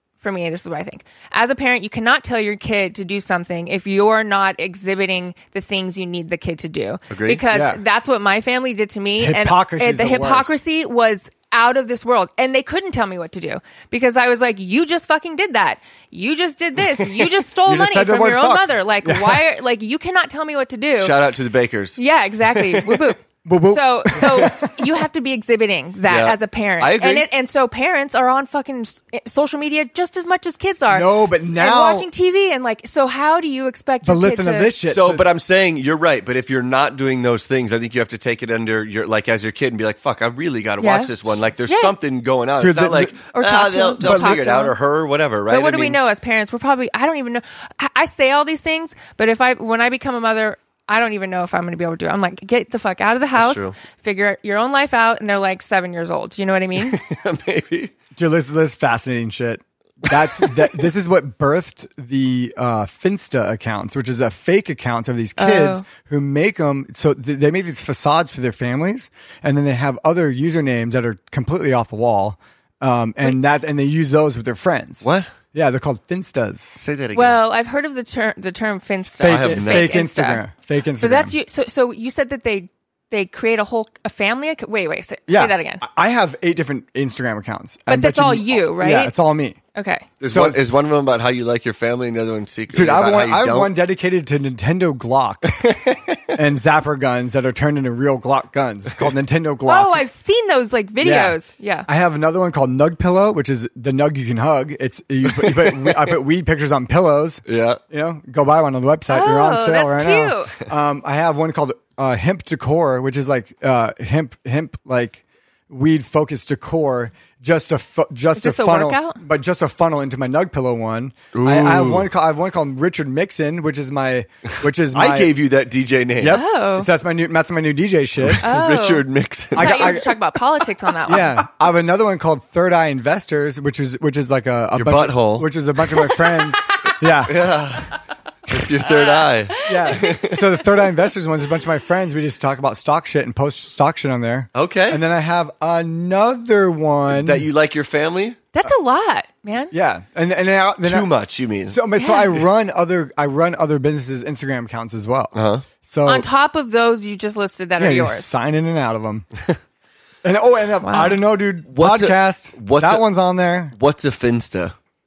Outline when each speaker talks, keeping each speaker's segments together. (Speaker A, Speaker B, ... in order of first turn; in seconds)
Speaker A: 0.2-21.1, 21.9-34.8, 40.8-41.1, 41.7-41.9, 43.3-44.7, 45.5-57.0, 65.4-65.8, 77.1-80.4, 81.0-85.8, 87.9-89.1, 89.7-90.1, 99.7-101.9, 109.1-110.5, 118.3-119.2, 126.2-126.9, 128.4-131.4, 138.8-139.8, 148.5-149.7, 152.0-152.3, 156.1-158.3, 160.8-161.2
Speaker B: 7.1-7.4, 21.0-22.0, 26.1-27.2, 34.9-46.0, 53.3-53.7, 56.8-57.9, 60.1-60.7, 75.0-75.3, 76.8-77.4, 79.2-79.9, 90.2-93.7, 95.6-96.3, 105.2-106.1, 107.5-107.8, 121.3-122.1, 124.9-126.4, 128.2-130.0, 134.8-135.5, 137.2-140.6, 144.5-145.0, 147.1-148.4, 150.8-151.8, 155.3-155.7, 161.7-163.1, 163.7-164.7
Speaker C: 7.5-7.8, 9.2-10.6, 17.6-19.5, 23.4-24.7, 30.9-32.1, 34.0-35.2, 42.6-43.1, 44.0-44.4, 58.1-76.8, 79.2-81.3, 85.3-89.6, 90.3-90.6, 92.7-95.7, 96.3-100.0, 101.0-101.3, 101.9-125.4, 126.2-128.4, 129.5-130.2, 131.1-137.5, 139.6-147.5, 149.7-151.1, 151.7-156.2, 157.8-159.3, 160.2-163.7